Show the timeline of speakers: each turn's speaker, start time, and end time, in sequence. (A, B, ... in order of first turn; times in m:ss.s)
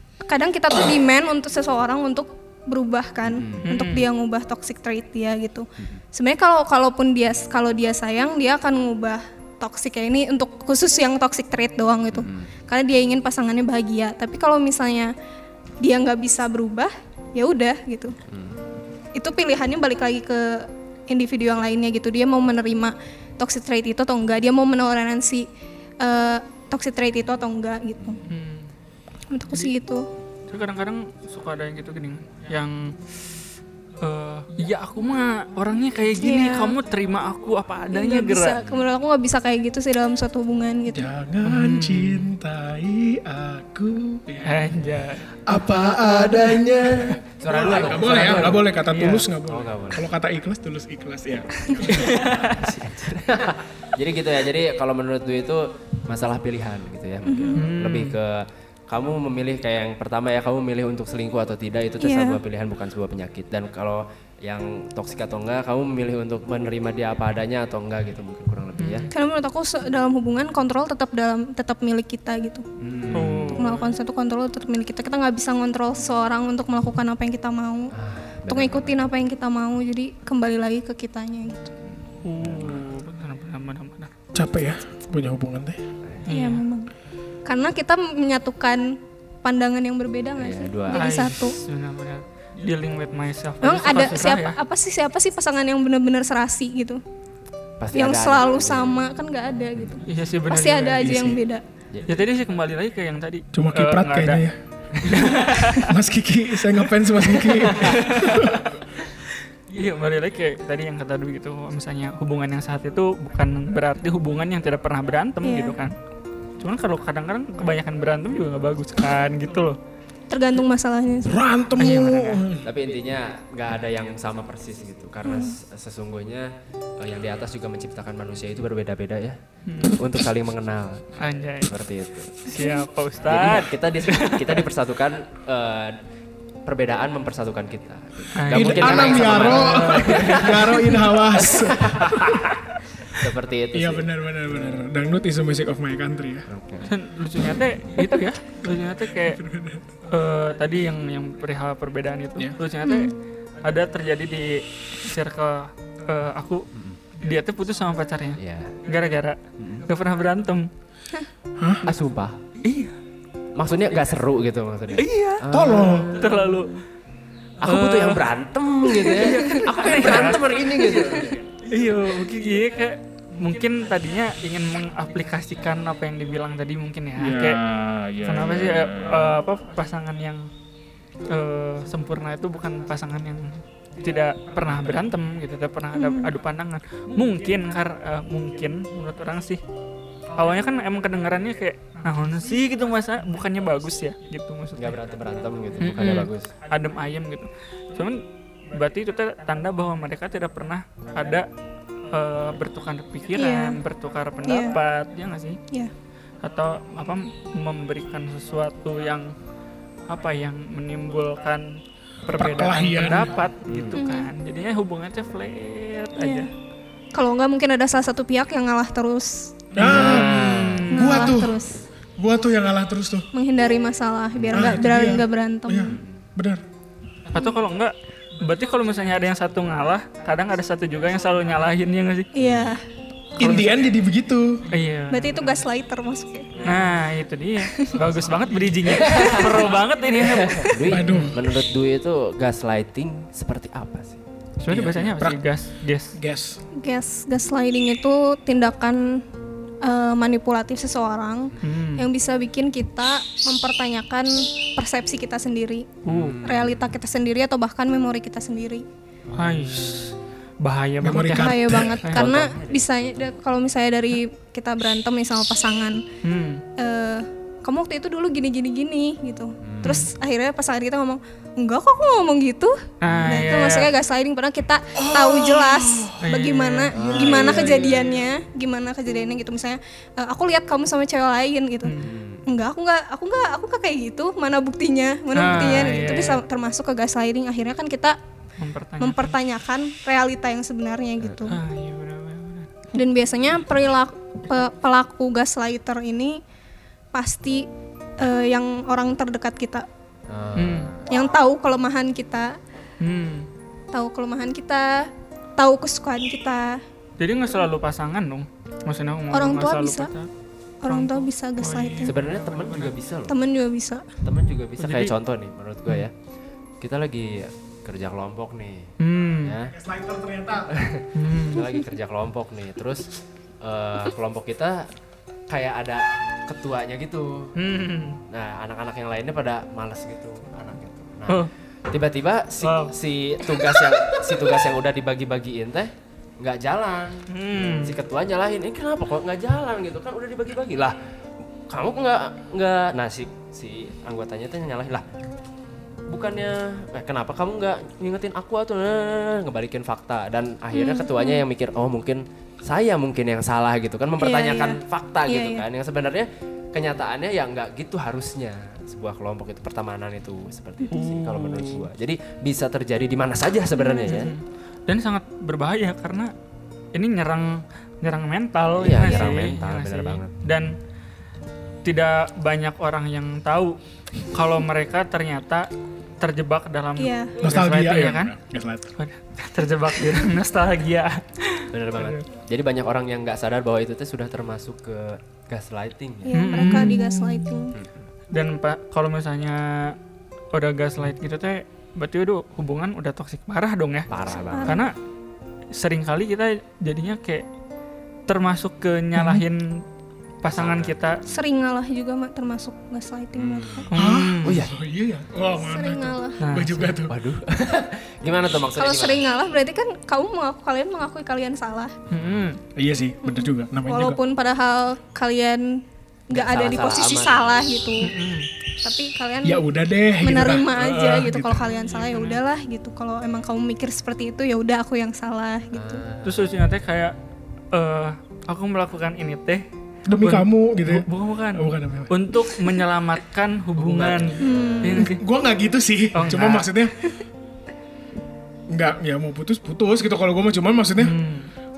0:00.2-0:15.1 A
0:03.3-0:03.7 B
0:03.6-0:04.1 C
0:12.1-0:12.5 B
0:15.8-0:18.2 A
0:18.3-0:18.6 B
0:19.1-0:25.5 A
0:26.0-0:28.2 A
0:28.3-0:28.7 C
0:29.3-0:30.0 A
0:30.5-0:33.2 C
0:34.0-0:38.6 C
0:36.2-0:36.8 A
0:37.9-0:41.1 A
0:40.9-0:44.8 D
0:41.4-0:42.3 C
0:44.4-0:45.3 C
0:45.4-0:52.6 D
0:45.5-0:48.7 B
0:48.8-0:49.3 C
0:49.4-0:50.0 B
0:51.9-0:52.6 C
0:52.0-1:09.1 B
0:57.2-0:57.6 A
0:57.5-0:58.2 C
1:02.0-1:02.4 A
1:08.8-1:09.1 C
1:09.1-1:12.6 A
1:12.8-1:13.6 B
1:13.1-1:13.9 C
1:13.5-1:17.9 A
1:17.9-1:19.0 B
1:18.5-1:21.7 A
1:22.2-1:24.1 C
1:22.4-1:22.8 B
1:24.3-1:25.8 D
1:26.2-1:26.6 C
1:26.3-1:26.9 A
1:27.4-1:31.6 A
1:30.4-1:31.2 B
1:30.9-1:34.6 C
1:33.6-1:37.0 A
1:37.8-1:39.0 B
1:37.9-1:41.6 A
1:40.0-1:41.1 C
1:41.0-1:41.4 D
1:41.9-1:42.2 B
1:42.1-1:44.4 C
1:43.5-1:48.6 D
1:45.0-1:45.9 C
1:47.3-1:55.9 C
1:55.4-1:55.8 A
1:56.6-1:59.8 C
2:00.3-2:01.4 A
2:01.2-2:02.6 D
2:01.8-2:02.4 C
2:02.6-2:12.5 B
2:05.2-2:05.6 A
2:09.6-2:10.0 C
2:11.2-2:11.7 C
2:12.4-2:14.6 C
2:12.5-2:12.9 A
2:13.2-2:16.0 B
2:16.6-2:24.8 B
2:18.4-2:20.7 C
2:18.5-2:22.6 D
2:23.7-2:26.5 D
2:26.5-2:26.9 B
2:26.9-2:29.4 C
2:29.2-2:29.9 D
2:30.1-2:36.6 C
2:32.8-2:33.1 A
2:36.7-2:37.0 B
2:37.2-2:40.7 C
2:38.4-2:38.8 B
2:39.6-2:39.8 B
2:41.6-2:41.8 D
2:41.8-2:42.4 B
2:42.6-2:42.9 C
2:43.5-2:46.7 B
2:45.0-2:46.8 C
2:45.5-2:46.1 D
2:47.6-2:51.4 B
2:47.6-2:48.3 C
2:48.8-2:51.0 C
2:51.6-2:57.6 C
2:57.2-2:59.3 D
2:58.2-3:00.5 C
3:01.3-3:09.6 C
3:05.9-3:06.3 A
3:10.3-3:15.0 C
3:14.8-3:16.5 B
3:15.8-3:21.5 C
3:22.1-3:25.6 C
3:23.3-3:23.8 A
3:24.4-3:24.8 A
3:26.4-3:29.3 C
3:30.1-3:36.5 C
3:32.3-3:33.3 D
3:33.6-3:34.0 B
3:33.9-3:34.3 A
3:36.2-3:36.5 A
3:37.1-3:39.6 A
3:39.7-3:41.6 D
3:39.8-3:40.9 B
3:39.8-3:41.4 C
3:40.9-3:41.8 A
3:42.2-3:43.3 D
3:43.3-3:46.0 A
3:44.3-3:44.8 B
3:44.5-3:46.6 D
3:45.9-3:46.2 B
3:47.3-3:52.3 C
3:52.3-3:52.8 A
3:52.4-3:52.7 B
3:53.4-3:54.6 D
3:53.4-3:53.8 C
3:54.7-3:55.6 C
3:55.1-3:56.6 A
3:56.6-3:56.8 B
3:56.6-4:01.3 C
3:57.6-3:58.1 A
3:58.8-4:04.2 B
4:00.9-4:01.4 D
4:04.6-4:06.2 C
4:04.7-4:05.4 D
4:04.7-4:05.1 B
4:06.1-4:06.6 D
4:06.8-4:09.2 A
4:09.8-4:18.8 A
4:11.6-4:12.1 C
4:16.0-4:16.4 C
4:16.0-4:16.9 B
4:19.3-4:22.4 C
4:21.0-4:22.0 D
4:21.3-4:26.0 A
4:22.1-4:23.3 B
4:26.2-4:26.6 C
4:26.8-4:48.2 A
4:29.6-4:30.0 B
4:33.0-4:33.9 C
4:35.0-4:36.2 D
4:36.2-4:37.6 C
4:36.9-4:38.0 B
4:37.2-4:38.0 D
4:41.8-4:42.1 C
4:42.0-4:42.5 B
4:45.3-4:46.4 C
4:48.6-4:49.4 C
4:49.0-4:51.6 A
4:51.4-4:52.7 C
4:52.9-4:56.4 A
4:57.1-4:59.8 A
5:00.3-5:01.1 B
5:00.6-5:00.9 C
5:01.0-5:02.6 A
5:03.0-5:03.5 C
5:03.9-5:06.8 A
5:07.2-5:10.3 C
5:09.3-5:10.1 A
5:10.8-5:12.1 A
5:10.8-5:12.9 C
5:12.0-5:13.3 B
5:13.3-5:14.0 A
5:14.2-5:16.1 B
5:14.8-5:15.1 C
5:16.8-5:19.7 B
5:19.0-5:19.5 C
5:19.7-5:20.7 D
5:20.7-5:24.9 B
5:21.1-5:21.6 C
5:25.5-5:27.5 B
5:27.6-5:28.2 C
5:28.3-5:37.2 B
5:32.6-5:32.9 C
5:37.3-5:38.0 C
5:37.8-5:41.0 B
5:41.7-5:45.0 B
5:46.1-6:04.3 B
5:50.7-5:51.4 A
5:54.2-5:55.6 A
6:00.9-6:01.8 C
6:03.7-6:04.3 A
6:04.1-6:06.3 C
6:06.9-6:10.7 C
6:08.8-6:10.3 B
6:09.0-6:09.3 A
6:11.8-6:13.8 C
6:14.3-6:15.7 C
6:16.2-6:18.3 C
6:17.0-6:17.3 A
6:17.4-6:18.9 D
6:19.0-6:22.2 C
6:21.7-6:26.4 B
6:26.2-6:27.7 A
6:26.3-6:27.6 C
6:26.6-6:27.0 D
6:27.7-6:28.1 B
6:28.3-6:30.0 C
6:30.5-6:34.1 C
6:34.1-6:34.8 B
6:34.3-6:34.9 A
6:34.6-6:34.9 C
6:35.7-6:37.4 C
6:38.3-6:39.8 C
6:39.2-6:39.4 D
6:40.4-6:41.2 C
6:40.4-6:41.4 B
6:41.2-6:43.9 A
6:43.4-6:43.9 B
6:43.9-6:44.6 C
6:43.9-6:47.1 D
6:44.4-6:44.7 B
6:45.5-6:46.4 A
6:46.4-6:47.0 C
6:47.1-6:49.2 B
6:48.7-6:52.0 A
6:52.1-6:52.5 B
6:52.1-6:52.6 C
6:52.8-6:54.2 D
6:53.3-6:58.1 A
6:56.3-6:58.0 B
6:58.0-6:58.5 C
6:58.8-6:59.6 A
6:59.4-7:01.7 D
7:00.2-7:06.0 A
7:01.7-7:02.4 C
7:05.7-7:06.5 B
7:06.2-7:07.1 C
7:07.7-7:09.6 C
7:10.1-7:12.3 D
7:10.2-7:15.2 C
7:13.8-7:15.1 B
7:14.4-7:15.1 A
7:15.0-7:17.1 D
7:16.1-7:16.7 C
7:18.7-7:21.2 D
7:21.0-7:21.5 C